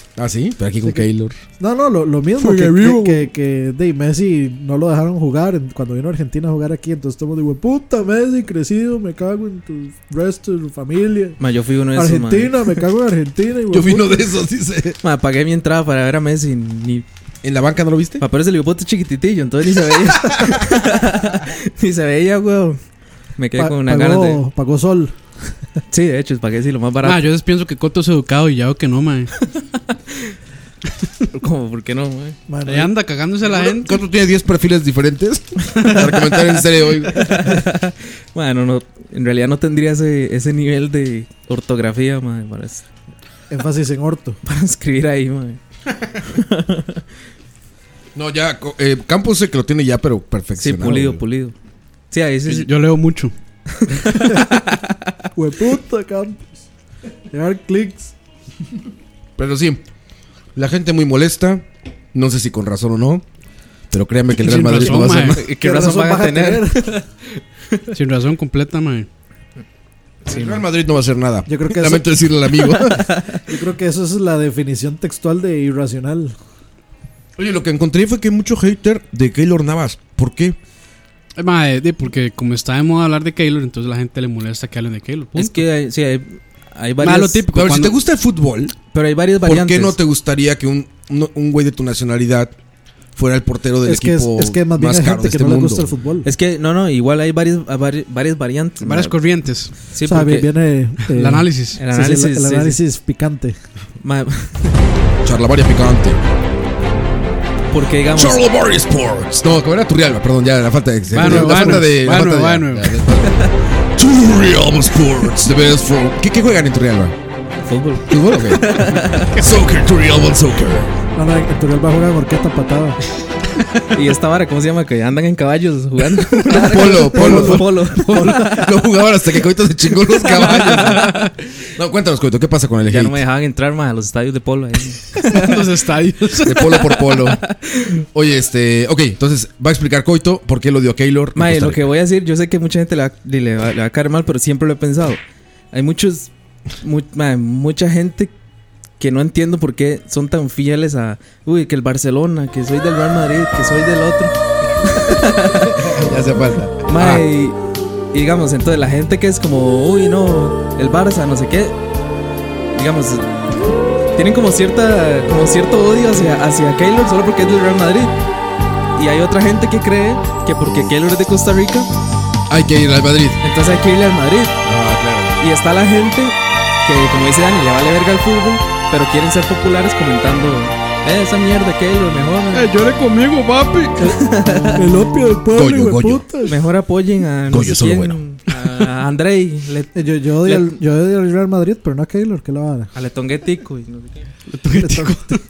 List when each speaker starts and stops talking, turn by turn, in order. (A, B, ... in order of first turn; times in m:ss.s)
0:00.2-0:01.4 A
0:01.6-0:11.4 B
0:02.4-0:03.3 A
0:11.4-0:12.8 C
0:11.9-0:14.2 B
0:13.7-0:15.0 A
0:15.0-0:17.0 C
0:17.4-0:18.2 A
0:18.2-0:22.8 C
0:20.2-0:20.5 A
0:23.4-0:24.4 C
0:23.6-0:25.4 B
0:25.9-0:27.2 C
0:27.0-0:29.4 D
0:29.9-0:30.3 C
0:31.3-0:32.4 C
0:32.5-0:32.9 B
0:32.6-0:34.0 D
0:33.4-0:37.6 A
0:37.1-0:42.8 C
0:43.5-0:44.4 B
0:44.4-0:45.6 C
0:46.2-0:47.0 C
0:48.1-0:51.2 A
0:50.6-0:51.5 C
0:52.1-0:52.7 C
0:52.4-0:53.3 D
0:53.8-0:55.0 C
0:55.3-0:56.5 B
0:57.3-0:58.1 B
0:59.4-0:59.8 A
1:00.5-1:03.2 A
1:03.9-1:05.5 A
1:04.4-1:05.4 D
1:05.3-1:07.1 C
1:05.6-1:06.9 B
1:07.9-1:09.1 D
1:10.2-1:10.6 C
1:10.2-1:13.2 A
1:11.5-1:12.1 B
1:12.9-1:13.4 C
1:13.4-1:16.3 B
1:17.4-1:20.6 A
1:21.4-1:25.7 D
1:25.3-1:27.4 C
1:27.0-1:27.9 D
1:27.5-1:28.8 A
1:28.9-1:30.0 C
1:29.4-1:32.5 A
1:33.2-1:35.9 A
1:33.8-1:36.3 B
1:36.2-1:39.2 C
1:38.8-1:39.7 D
1:39.9-1:40.5 C
1:40.0-1:43.6 B
1:41.1-1:41.8 D
1:41.8-1:42.8 C
1:44.0-1:44.7 C
1:45.2-1:46.2 A
1:47.7-1:48.4 C
1:48.1-1:57.1 A
1:51.1-1:53.0 D
1:57.6-1:59.4 C
1:58.1-2:00.9 A
2:01.1-2:03.0 B
2:03.9-2:08.7 C
2:06.4-2:13.2 A
2:06.8-2:07.7 B
2:08.0-2:08.4 D
2:10.2-2:11.3 C
2:12.9-2:15.6 C
2:15.2-2:17.0 D
2:16.4-2:17.4 A
2:17.3-2:17.9 C
2:18.1-2:21.9 A
2:21.4-2:28.3 C
2:29.0-2:35.9 C
2:35.1-2:37.2 A
2:36.9-2:37.6 C
2:38.1-2:41.8 C
2:42.7-2:43.4 C
2:44.1-2:48.1 C
2:49.0-2:51.9 C
2:52.5-2:53.4 A
2:53.4-2:54.6 C
2:54.6-2:55.3 A
2:55.4-3:02.7 C
3:02.5-3:05.0 D
3:04.0-3:04.9 C
3:04.7-3:06.6 B
3:05.5-3:06.3 A
3:06.4-3:10.8 C
3:07.5-3:08.2 A
3:09.9-3:12.9 B
3:12.9-3:14.2 C
3:14.5-3:15.4 D
3:14.7-3:15.4 B